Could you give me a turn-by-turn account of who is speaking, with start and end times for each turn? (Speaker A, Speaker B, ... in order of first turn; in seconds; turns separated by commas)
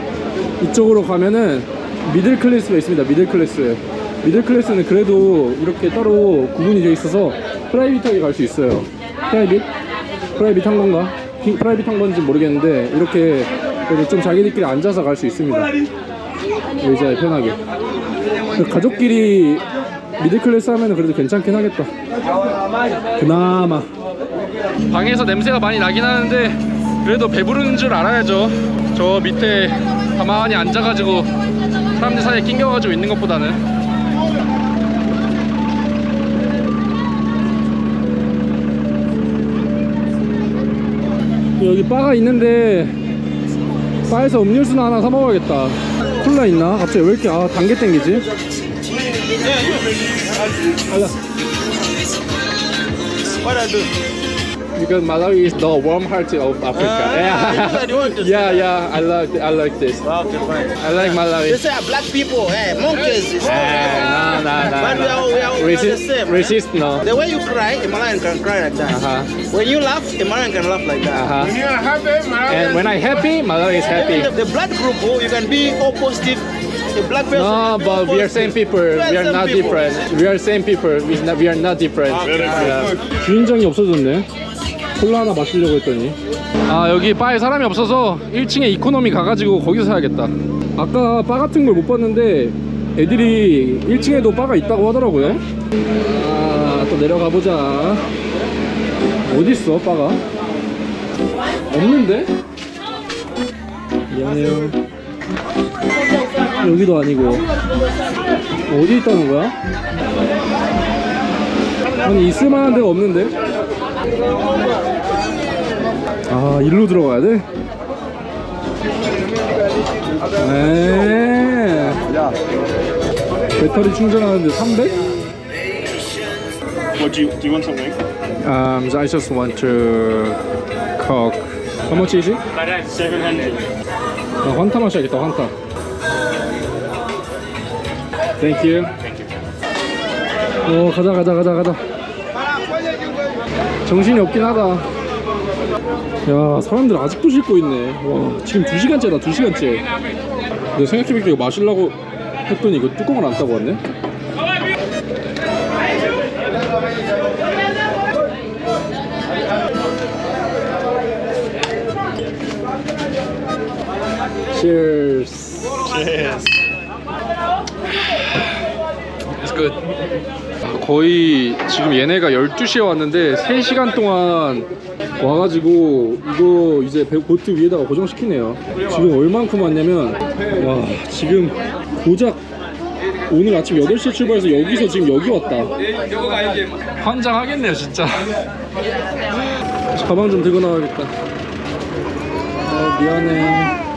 Speaker A: 0.6-9.7, Speaker A: 10.3-15.7, Speaker A: 16.8-17.6, Speaker A: 18.5-19.6, Speaker A: 20.2-21.9, Speaker A: 23.2-23.9, Speaker A: 24.9-31.3, Speaker A: 32.0-33.6, Speaker A: 41.6-43.0, Speaker A: 44.1-48.3, Speaker B: 49.4-49.8, Speaker A: 50.9-51.1, Speaker B: 53.2-53.9, Speaker A: 54.8-60.0, Speaker B: 56.7-58.7, Speaker B: 60.0-73.0, Speaker A: 60.8-61.6, Speaker A: 63.4-67.0, Speaker A: 68.9-69.3, Speaker A: 71.1-71.6, Speaker A: 72.5-74.3, Speaker B: 73.8-80.1, Speaker A: 77.3-84.3, Speaker B: 82.1-82.9, Speaker C: 82.2-82.9, Speaker A: 84.9-95.4, Speaker A: 96.0-98.0, Speaker A: 99.2-100.2, Speaker A: 101.7-102.3, Speaker A: 104.1-104.8, Speaker A: 106.6-107.4, Speaker A: 108.7-109.5, Speaker A: 112.0-113.3, Speaker A: 116.3-117.5, Speaker A: 120.4-122.0, Speaker A: 123.6-125.0, Speaker C: 126.9-128.0, Speaker A: 128.4-130.4, Speaker A: 131.0-132.4, Speaker C: 132.5-133.7, Speaker A: 134.4-135.5, Speaker A: 138.4-138.9, Speaker A: 140.7-141.8, Speaker A: 143.8-144.8, Speaker A: 146.2-149.8, Speaker A: 150.7-153.8, Speaker A: 164.5-166.4, Speaker A: 169.4-169.8, Speaker A: 170.6-174.7, Speaker A: 175.2-182.4, Speaker A: 183.3-185.8, Speaker A: 187.0-188.4, Speaker A: 189.9-191.1, Speaker A: 192.6-193.8